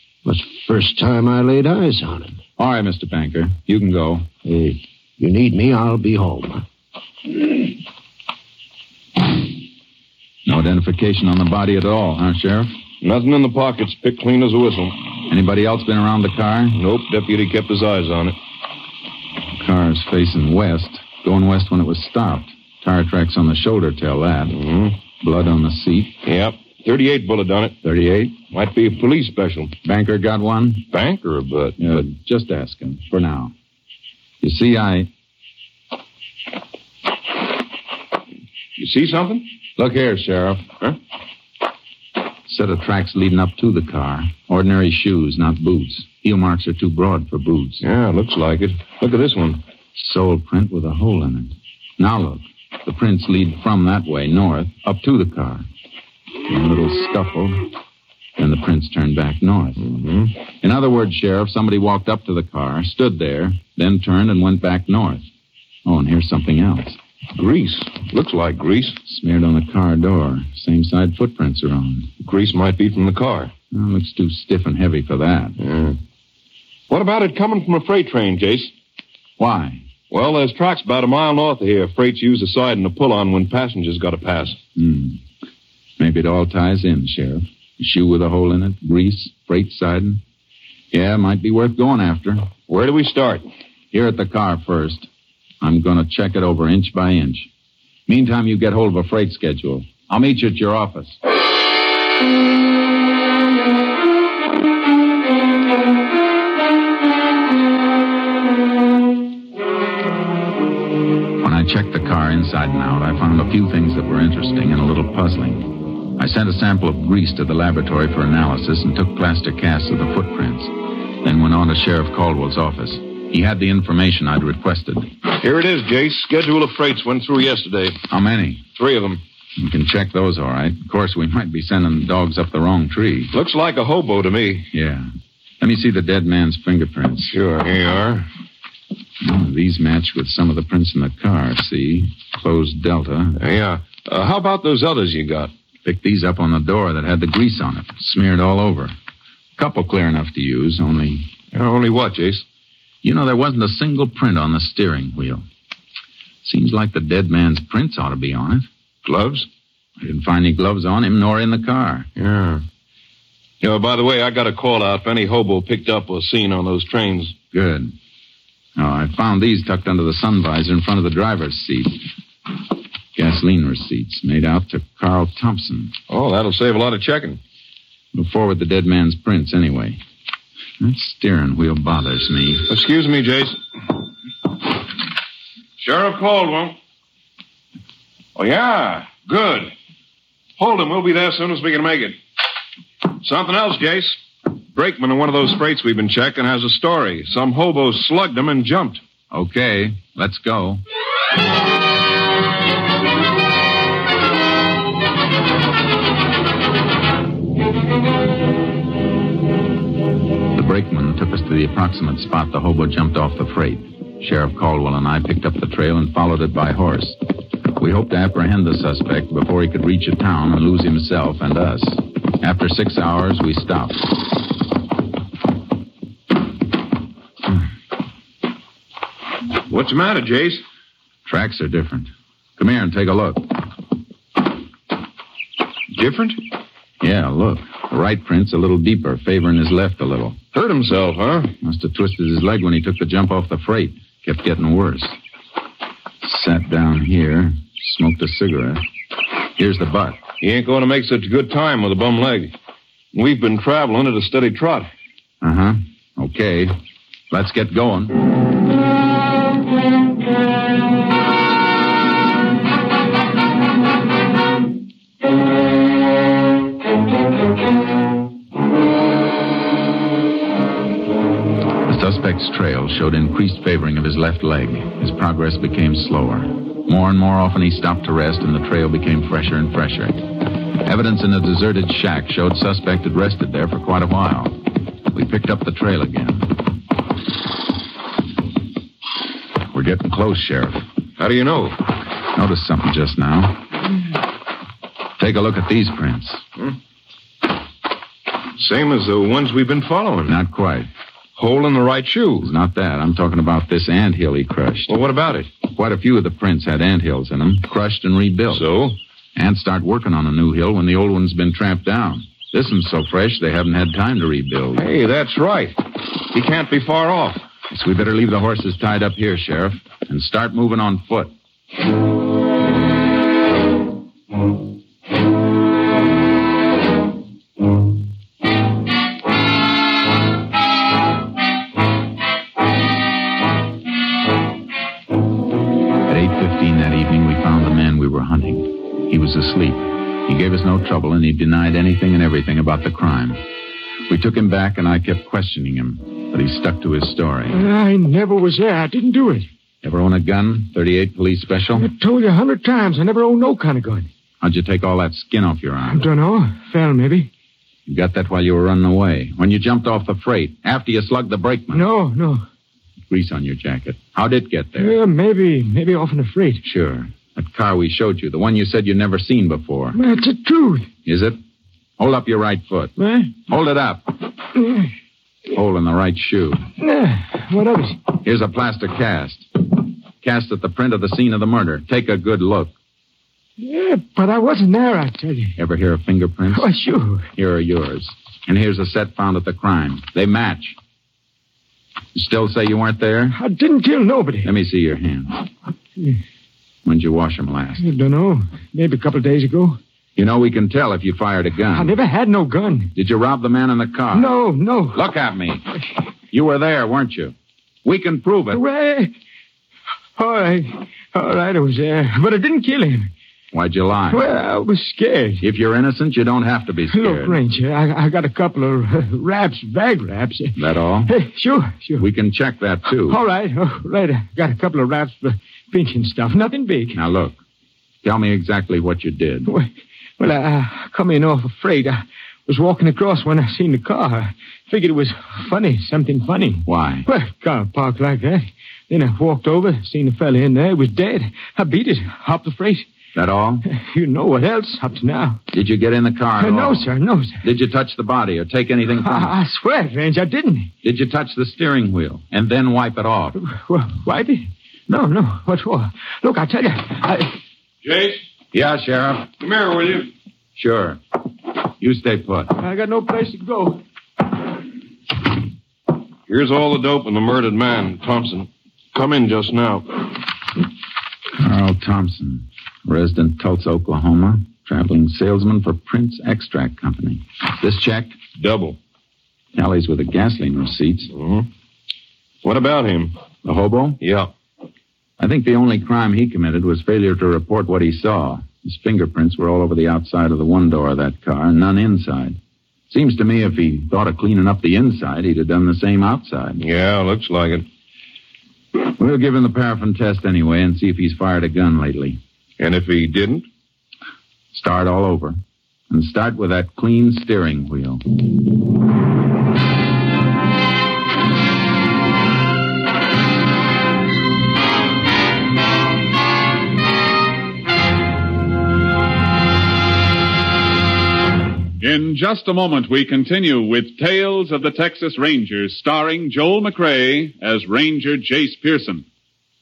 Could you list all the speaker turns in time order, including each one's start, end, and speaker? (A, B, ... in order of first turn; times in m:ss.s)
0:00.2-0:02.4 A
0:02.6-0:04.3 B
0:04.4-0:06.6 A
0:10.5-0:12.7 B
0:13.0-0:15.0 C
0:15.3-0:16.8 B
0:16.7-0:18.4 C
0:19.6-0:24.6 B
0:24.5-0:25.0 C
0:25.2-0:26.2 B
0:26.2-0:27.8 C
0:27.8-0:28.4 B
0:28.4-0:29.7 C
0:29.8-0:30.9 B
0:30.9-0:32.0 C
0:31.8-0:33.5 B
0:34.4-0:35.1 B
0:38.8-0:39.5 C
0:39.8-0:40.7 B
0:42.5-0:47.8 B
0:47.8-0:49.6 C
0:50.0-0:55.7 B
0:56.4-0:57.7 B
0:58.4-0:59.9 B
0:59.8-1:00.4 C
1:00.6-1:05.3 B
1:05.8-1:07.0 B
1:07.3-1:09.0 C
1:09.0-1:12.1 B
1:12.2-1:13.5 C
1:13.7-1:15.6 B
1:15.6-1:16.0 C
1:16.9-1:18.7 C
1:19.4-1:19.8 B
1:20.1-1:24.6 C
1:24.8-1:25.2 B
1:26.0-1:30.2 B
1:30.9-1:32.5 B
1:32.7-1:33.4 C
1:33.9-1:35.1 B
1:35.6-1:37.5 B
1:38.1-1:41.2 B
1:51.4-2:05.1 B
2:05.3-2:08.0 C
2:08.1-2:08.6 B
2:08.8-2:09.2 C
2:09.6-2:13.3 B
2:13.3-2:14.7 C
2:14.7-2:17.4 B
2:17.3-2:18.3 C
2:19.2-2:23.4 B
2:23.4-2:25.5 C
2:25.8-2:29.0 B
2:29.6-2:31.3 B
2:31.5-2:32.4 C
2:33.0-2:35.4 B
2:36.4-2:38.7 B
2:39.0-2:39.5 C
2:40.0-2:42.1 B
2:42.2-2:42.6 C
2:43.6-2:47.4 C
2:47.5-2:48.0 B
2:48.8-2:52.1 B
2:53.2-2:55.9 B
2:56.1-2:57.4 C
2:58.1-3:00.0 B
3:00.8-3:02.7 B
3:02.7-3:03.6 C
3:05.8-3:06.8 C
3:08.4-3:09.7 C
3:10.6-3:12.2 C
3:13.2-3:14.2 C
3:14.7-3:19.0 C
3:19.3-3:20.8 B
3:30.5-3:37.2 B
3:37.8-3:44.1 B
3:49.7-3:50.6 C
3:51.3-3:53.6 B
3:55.9-3:56.4 C
3:57.0-4:00.4 B
4:00.5-4:01.5 C
4:01.6-4:05.2 B
4:06.2-4:08.8 B
4:09.6-4:10.2 B
4:10.4-4:12.5 C
4:13.1-4:14.9 C
4:15.4-4:16.8 B
4:17.3-4:18.2 B
4:31.9-4:40.2 B
4:40.8-4:44.6 B
4:45.1-4:46.5 B
4:49.7-4:50.8 B
4:51.2-4:51.8 C
4:52.3-4:53.6 B
4:55.2-4:56.4 B
4:58.6-5:00.4 C
5:00.3-5:00.9 B
5:01.4-5:02.5 C
5:02.4-5:05.0 B
5:04.9-5:05.5 C
5:05.6-5:08.7 B
5:08.5-5:09.0 C
5:09.4-5:14.8 B
5:14.8-5:17.4 C
5:17.7-5:21.3 B
5:36.0-5:43.4 B
5:44.1-5:47.6 B
5:47.5-5:49.4 D
5:49.8-5:51.9 B
5:51.8-5:54.1 D
5:54.4-5:56.0 B
5:55.9-5:57.3 D
5:57.9-6:01.9 B
6:01.7-6:02.4 D
6:03.1-6:05.0 B
6:04.8-6:06.6 D
6:06.6-6:10.0 B
6:10.0-6:10.9 D
6:11.0-6:11.4 B
6:12.0-6:12.9 B
6:13.0-6:13.3 D
6:13.5-6:14.2 B
6:15.5-6:16.7 B
6:16.8-6:18.0 D
6:18.2-6:19.5 B
6:20.2-6:22.8 B
6:23.6-6:25.5 D
6:25.6-6:26.7 B
6:26.5-6:27.2 D
6:27.3-6:30.8 B
6:32.2-6:33.4 B
6:33.3-6:34.5 D
6:34.4-6:35.4 B
6:36.8-6:37.8 B
6:37.8-6:39.8 D
6:40.2-6:42.0 B
6:41.7-6:42.9 D
6:43.0-6:44.3 B
6:44.1-6:45.0 D
6:44.9-6:45.7 B
6:46.3-6:48.6 B
6:48.5-6:49.1 D
6:50.2-6:53.1 D
6:53.5-6:54.3 B
6:54.1-6:55.4 D
6:55.4-6:57.4 B
6:56.9-7:00.5 D
7:00.6-7:01.2 B
7:01.1-7:02.0 D
7:02.0-7:03.2 B
7:03.1-7:07.0 D
7:06.9-7:07.4 B
7:08.0-7:09.5 B
7:09.5-7:22.9 D
7:16.7-7:17.1 B
7:23.2-7:23.6 B
7:23.9-7:25.4 D
7:25.5-7:26.9 B
7:26.4-7:27.4 D
7:27.4-7:29.3 B
7:29.0-7:30.7 D
7:30.8-7:33.4 B
7:33.4-7:37.3 D
7:37.8-7:38.2 C
7:38.5-7:39.3 B
7:39.4-7:40.1 C
7:40.6-7:41.0 B
7:41.8-7:42.6 B
7:42.6-7:43.8 D
7:46.3-7:50.1 C
7:51.4-7:58.2 B
7:58.4-7:58.8 C
7:59.6-8:01.1 B
8:01.1-8:01.5 C
8:02.4-8:03.2 C
8:03.4-8:04.0 B
8:04.0-8:04.3 C
8:05.2-8:12.4 B
8:12.9-8:16.6 B
8:16.6-8:17.7 C
8:19.0-8:22.2 B
8:22.6-8:23.5 C
8:24.5-8:25.4 B
8:25.9-8:28.0 B
8:41.8-8:49.0 E